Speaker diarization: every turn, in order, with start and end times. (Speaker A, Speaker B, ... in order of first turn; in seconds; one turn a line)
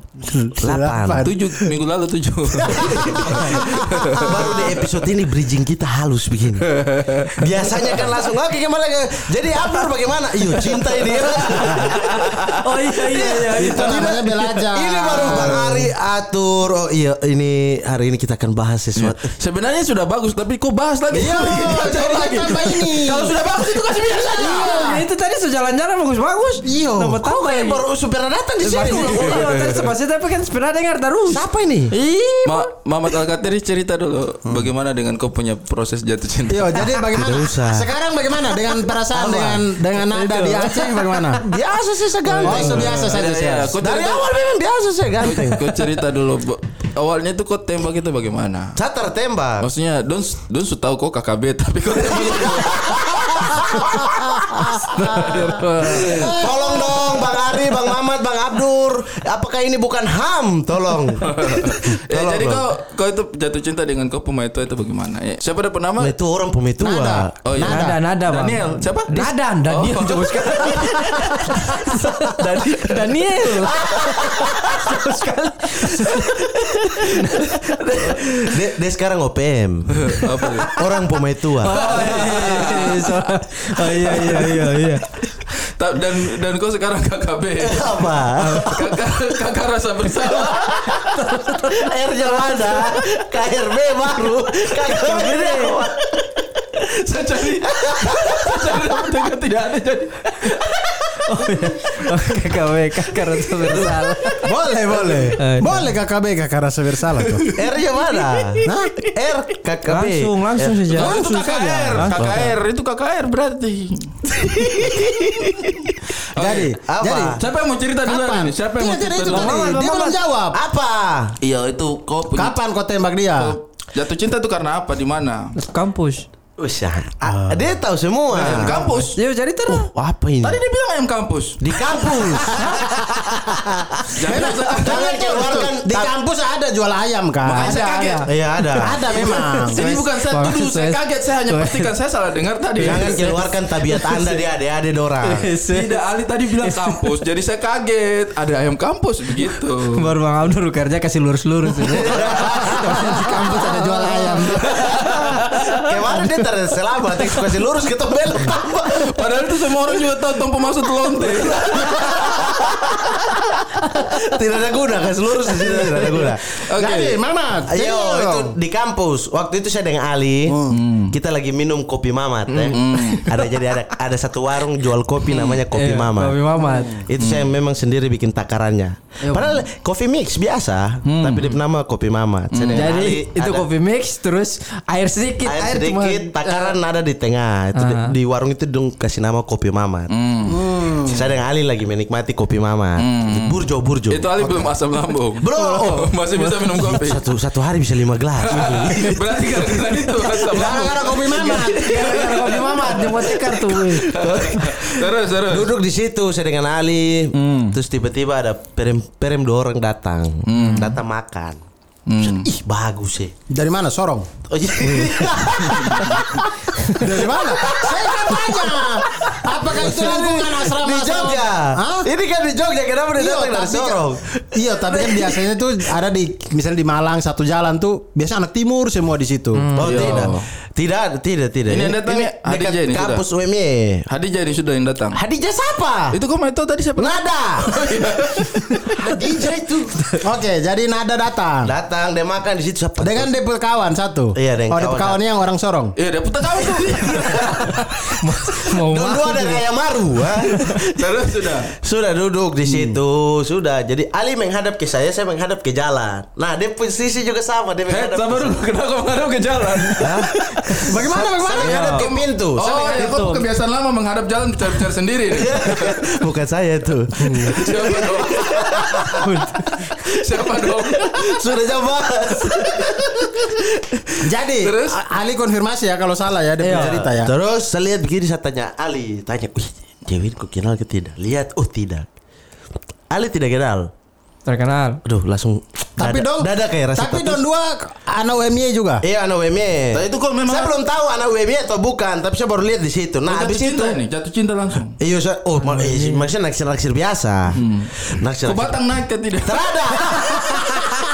Speaker A: 0.2-1.8
Speaker B: 0.6-1.3
Speaker C: 1.2-4.9
Speaker A: 2.6-4.4
Speaker B: 2.9-3.6
Speaker B: 4.2-6.7
Speaker C: 6.7-8.0
Speaker B: 7.3-19.3
Speaker C: 10.5-12.5
Speaker D: 12.6-14.6
Speaker A: 13.2-15.8
Speaker D: 15.1-15.6
Speaker C: 19.0-24.9
Speaker A: 21.1-23.4
Speaker A: 24.4-25.0
Speaker D: 24.4-27.8
Speaker A: 26.6-27.2
Speaker B: 27.0-29.5
Speaker D: 28.6-32.7
Speaker A: 28.7-29.1
Speaker C: 28.7-29.9
Speaker B: 31.3-31.9
Speaker C: 32.5-36.8
Speaker A: 36.5-41.4
Speaker B: 37.1-37.9
Speaker B: 39.1-39.6
Speaker D: 40.1-41.5
Speaker B: 41.4-43.1
Speaker D: 42.2-42.8
Speaker A: 42.4-43.8
Speaker C: 42.5-44.2
Speaker B: 43.8-45.6
Speaker C: 45.2-48.8
Speaker B: 48.8-49.7
Speaker C: 49.6-54.2
Speaker B: 52.0-62.6
Speaker C: 55.0-56.5
Speaker A: 55.0-55.4
Speaker A: 55.9-56.9
Speaker C: 61.3-66.1
Speaker B: 66.0-67.3
Speaker A: 66.8-68.0
Speaker C: 67.5-70.8
Speaker D: 67.6-78.6
Speaker B: 72.3-75.0
Speaker B: 75.8-76.3
Speaker B: 76.9-80.2
Speaker C: 80.0-80.7
Speaker D: 80.1-80.8
Speaker B: 80.7-82.8
Speaker D: 81.6-85.1
Speaker C: 81.7-83.0
Speaker C: 84.0-84.9
Speaker C: 85.5-91.0
Speaker B: 87.6-89.0
Speaker D: 88.4-88.8
Speaker B: 90.3-90.9
Speaker D: 91.1-93.0
Speaker B: 91.5-96.5
Speaker D: 94.8-95.8
Speaker C: 96.8-100.7
Speaker B: 97.6-99.0
Speaker D: 101.2-104.4
Speaker B: 103.7-104.5
Speaker A: 104.4-107.5
Speaker D: 105.4-105.9
Speaker B: 107.5-110.8
Speaker D: 108.0-108.2
Speaker A: 108.7-108.9
Speaker D: 109.9-111.2
Speaker C: 110.9-115.1
Speaker A: 110.9-112.2
Speaker D: 112.0-112.4
Speaker B: 112.2-112.5
Speaker B: 114.5-115.8
Speaker C: 116.3-116.7
Speaker A: 116.3-117.4
Speaker B: 116.9-117.4
Speaker C: 117.4-119.8
Speaker A: 118.0-120.6
Speaker D: 119.3-120.1
Speaker B: 119.7-121.4
Speaker C: 121.4-122.6
Speaker A: 122.4-123.6
Speaker C: 123.4-125.5
Speaker D: 125.6-126.2
Speaker B: 126.6-128.9
Speaker A: 127.2-127.8
Speaker C: 128.3-129.2
Speaker A: 128.7-129.0
Speaker D: 129.1-129.9
Speaker B: 129.7-130.6
Speaker C: 130.4-132.5
Speaker B: 131.6-136.1
Speaker A: 132.5-133.6
Speaker C: 134.1-135.5
Speaker A: 134.2-137.8
Speaker C: 137.4-138.3
Speaker D: 137.6-138.3
Speaker B: 138.2-139.0
Speaker A: 138.8-139.9
Speaker D: 139.1-141.9
Speaker C: 139.2-143.3
Speaker B: 142.8-145.5
Speaker D: 142.8-144.4
Speaker D: 145.2-146.0
Speaker C: 145.7-150.0
Speaker D: 146.6-147.0
Speaker D: 149.9-156.4
Speaker B: 151.9-153.0
Speaker C: 151.9-152.8
Speaker A: 153.5-154.2
Speaker B: 154.1-159.1
Speaker C: 154.6-155.7
Speaker C: 158.4-162.4
Speaker B: 161.2-162.8
Speaker D: 163.8-164.2
Speaker B: 164.0-166.6
Speaker C: 166.7-167.2
Speaker A: 166.8-168.5
Speaker B: 167.7-170.6
Speaker A: 170.5-170.8
Speaker C: 170.7-171.2
Speaker B: 171.1-176.4
Speaker C: 172.5-173.3
Speaker C: 175.2-175.7
Speaker D: 175.7-177.1
Speaker A: 176.6-177.0
Speaker B: 177.0-183.7
Speaker C: 177.2-177.5
Speaker D: 179.2-179.6
Speaker C: 181.1-181.6
Speaker C: 182.5-183.2
Speaker D: 182.7-186.8
Speaker B: 185.4-190.1
Speaker D: 187.8-188.1
Speaker C: 190.1-190.8
Speaker A: 190.5-191.3
Speaker B: 190.9-194.8
Speaker C: 193.0-197.2
Speaker B: 195.4-211.6
Speaker C: 198.4-205.7
Speaker A: 200.5-202.1
Speaker D: 201.6-204.1
Speaker C: 207.3-207.8
Speaker C: 210.5-211.0
Speaker D: 210.6-210.9
Speaker C: 212.1-212.5
Speaker B: 212.2-213.3
Speaker A: 213.5-214.3
Speaker B: 214.5-225.4
Speaker A: 214.8-216.2
Speaker C: 215.7-216.2
Speaker A: 216.9-222.1
Speaker A: 223.2-229.7
Speaker D: 229.5-230.3
Speaker B: 229.8-234.1
Speaker C: 229.8-230.4
Speaker C: 231.7-233.2
Speaker C: 234.1-235.2
Speaker B: 235.1-236.2
Speaker C: 236.1-239.2
Speaker B: 237.0-237.8
Speaker B: 239.0-240.0
Speaker A: 240.2-241.7
Speaker B: 241.6-243.3
Speaker A: 243.0-245.9
Speaker B: 244.3-245.2
Speaker C: 246.0-247.7
Speaker B: 246.9-247.6
Speaker D: 247.0-249.6
Speaker B: 248.6-258.6
Speaker D: 250.4-250.8
Speaker C: 250.8-251.7
Speaker C: 257.9-261.0
Speaker B: 260.0-260.3
Speaker A: 260.8-261.9
Speaker B: 261.1-263.1
Speaker D: 261.6-262.0
Speaker C: 261.6-266.2
Speaker D: 262.9-263.4
Speaker B: 265.3-269.3
Speaker A: 267.3-267.6
Speaker C: 267.3-269.2
Speaker D: 269.2-269.9
Speaker C: 270.1-271.4
Speaker B: 270.3-274.0
Speaker A: 274.2-277.3
Speaker C: 274.6-275.0
Speaker D: 276.6-277.0
Speaker B: 276.7-282.1
Speaker B: 283.1-283.9
Speaker D: 284.5-285.0
Speaker B: 285.1-287.4
Speaker A: 286.0-289.0
Speaker B: 289.0-294.0
Speaker C: 289.9-290.8
Speaker C: 293.3-295.0
Speaker B: 295.0-298.8
Speaker C: 297.5-300.5
Speaker B: 299.5-300.9